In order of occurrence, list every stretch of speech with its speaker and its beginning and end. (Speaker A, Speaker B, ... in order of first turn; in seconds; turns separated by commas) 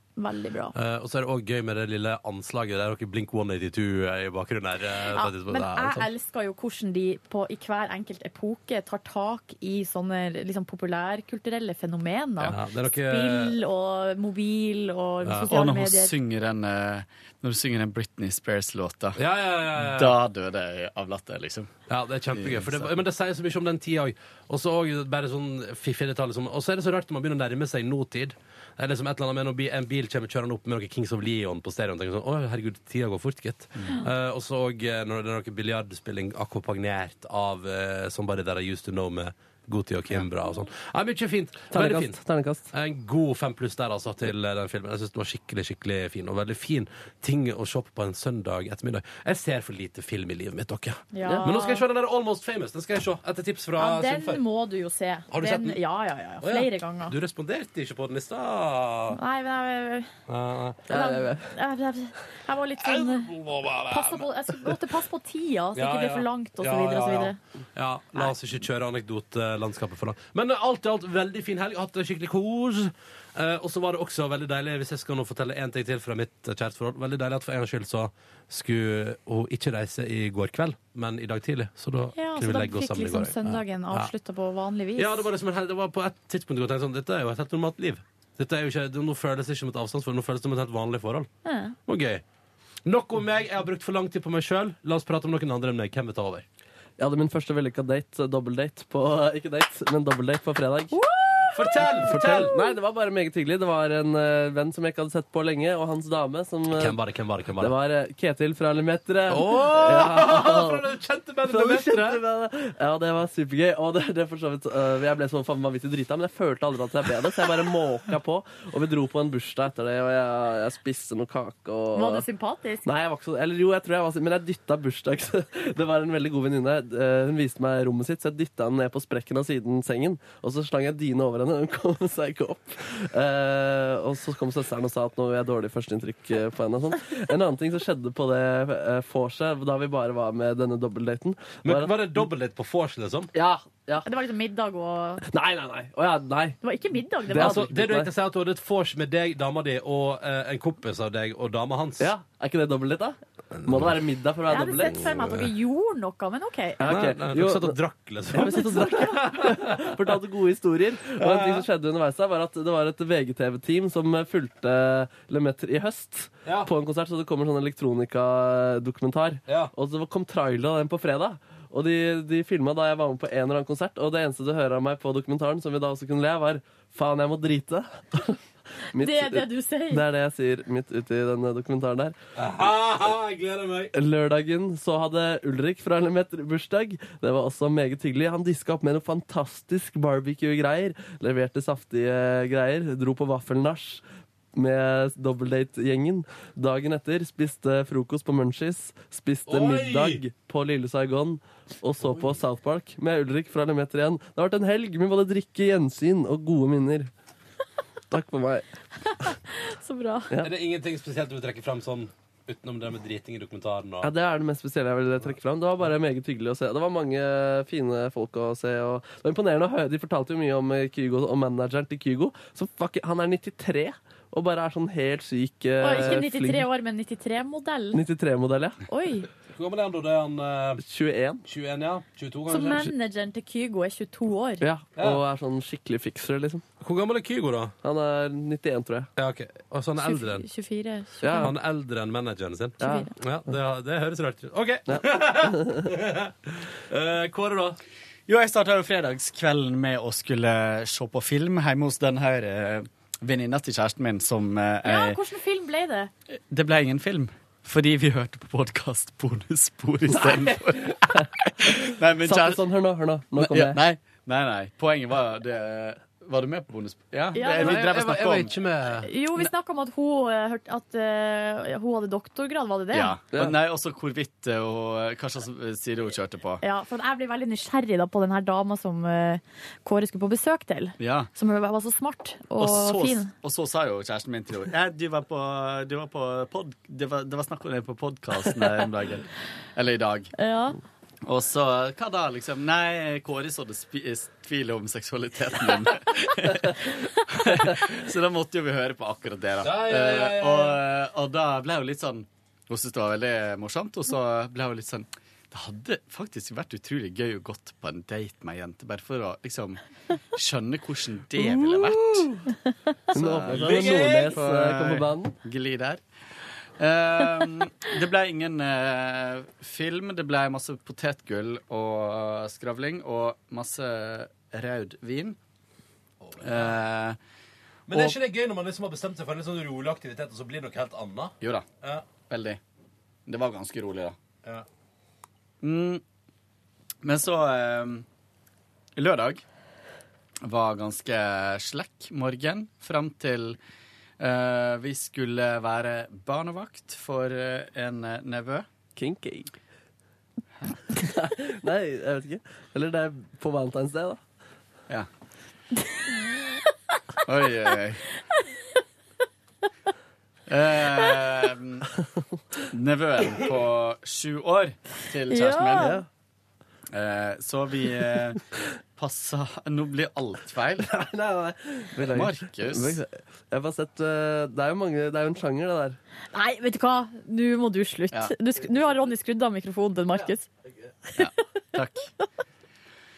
Speaker A: 0.2-0.8, Speaker B: 0.7-6.1, Speaker A: 5.1-16.1, Speaker B: 12.5-13.6, Speaker C: 15.5-19.2, Speaker B: 19.2-20.2, Speaker C: 19.8-21.7, Speaker B: 21.9-42.2, Speaker C: 22.3-23.0, Speaker D: 41.7-42.7, Speaker B: 42.7-54.4, Speaker A: 51.1-51.8, Speaker A: 53.8-57.1, Speaker B: 55.3-55.8, Speaker B: 56.4-59.2, Speaker A: 59.1-60.1, Speaker B: 60.3-60.8, Speaker D: 60.9-61.5, Speaker A: 60.9-63.3, Speaker B: 62.8-64.8, Speaker A: 63.9-67.4, Speaker B: 65.8-84.1, Speaker A: 82.2-85.3, Speaker B: 85.0-91.3, Speaker A: 91.5-91.8, Speaker B: 91.9-92.2, Speaker B: 92.8-96.5, Speaker D: 97.0-101.0, Speaker A: 100.9-101.6, Speaker B: 101.5-102.5, Speaker D: 102.0-107.0, Speaker B: 106.7-107.7, Speaker D: 107.6-110.8, Speaker B: 109.3-112.2, Speaker D: 111.5-122.2, Speaker A: 121.9-122.8, Speaker D: 122.8-141.9, Speaker B: 141.6-143.3, Speaker D: 143.3-144.1, Speaker A: 144.1-145.2, Speaker D: 145.3-146.6, Speaker A: 146.6-147.7, Speaker D: 147.3-148.1, Speaker B: 147.3-152.1, Speaker D: 152.0-155.0, Speaker B: 153.6-154.0, Speaker A: 154.5-156.9, Speaker B: 154.9-155.5, Speaker D: 156.8-157.8, Speaker B: 156.9-160.0, Speaker D: 158.3-178.4, Speaker B: 161.2-161.7, Speaker B: 169.5-169.7, Speaker D: 178.9-182.2, Speaker A: 179.0-180.0, Speaker B: 182.4-183.9, Speaker D: 183.9-194.0, Speaker D: 194.6-207.1, Speaker B: 199.5-200.2, Speaker B: 202.0-202.4, Speaker D: 208.1-208.7, Speaker A: 209.2-210.3, Speaker B: 210.4-214.1, Speaker D: 214.0-226.7, Speaker A: 225.8-228.0, Speaker D: 227.9-228.8, Speaker A: 228.9-229.3, Speaker B: 229.5-230.8, Speaker D: 230.8-231.4, Speaker B: 231.4-232.9, Speaker A: 232.5-234.6, Speaker D: 234.6-236.6, Speaker B: 235.0-235.2, Speaker B: 236.8-237.8, Speaker D: 237.8-239.1, Speaker B: 239.2-240.5, Speaker A: 240.0-241.5, Speaker D: 241.2-241.5, Speaker B: 241.4-247.8, Speaker D: 242.8-243.1, Speaker A: 242.8-243.1, Speaker D: 244.9-245.9, Speaker C: 248.3-255.2, Speaker A: 254.8-256.1, Speaker C: 256.5-262.7, Speaker D: 260.1-263.8, Speaker C: 263.4-268.5, Speaker A: 267.3-267.9, Speaker B: 267.6-269.1, Speaker A: 269.0-273.2, Speaker C: 272.9-276.6, Speaker A: 276.6-283.3, Speaker C: 281.0-281.3, Speaker C: 282.6-290.3, Speaker A: 290.4-290.8, Speaker C: 291.2-309.8, Speaker B: 299.6-300.8, Speaker C: 310.3-312.3, Speaker D: 311.4-312.4, Speaker C: 313.1-316.0, Speaker D: 313.1-315.4, Speaker B: 313.5-314.4, Speaker C: 316.8-325.4, Speaker B: 326.2-326.8, Speaker C: 326.4-327.2, Speaker B: 327.9-332.1, Speaker C: 331.4-331.7, Speaker C: 332.2-332.6, Speaker C: 333.3-334.2, Speaker C: 335.6-336.0, Speaker C: 337.0-338.1, Speaker C: 339.0-339.4, Speaker C: 340.4-343.6, Speaker C: 344.2-348.7, Speaker D: 349.0-349.5, Speaker D: 350.9-354.2, Speaker C: 357.2-358.1, Speaker C: 360.5-361.9, Speaker C: 362.7-366.0, Speaker A: 365.3-366.0, Speaker D: 365.8-366.1, Speaker C: 366.9-368.4, Speaker C: 368.9-370.9, Speaker D: 370.8-376.0, Speaker C: 372.0-373.0, Speaker A: 376.3-380.5, Speaker C: 381.2-382.1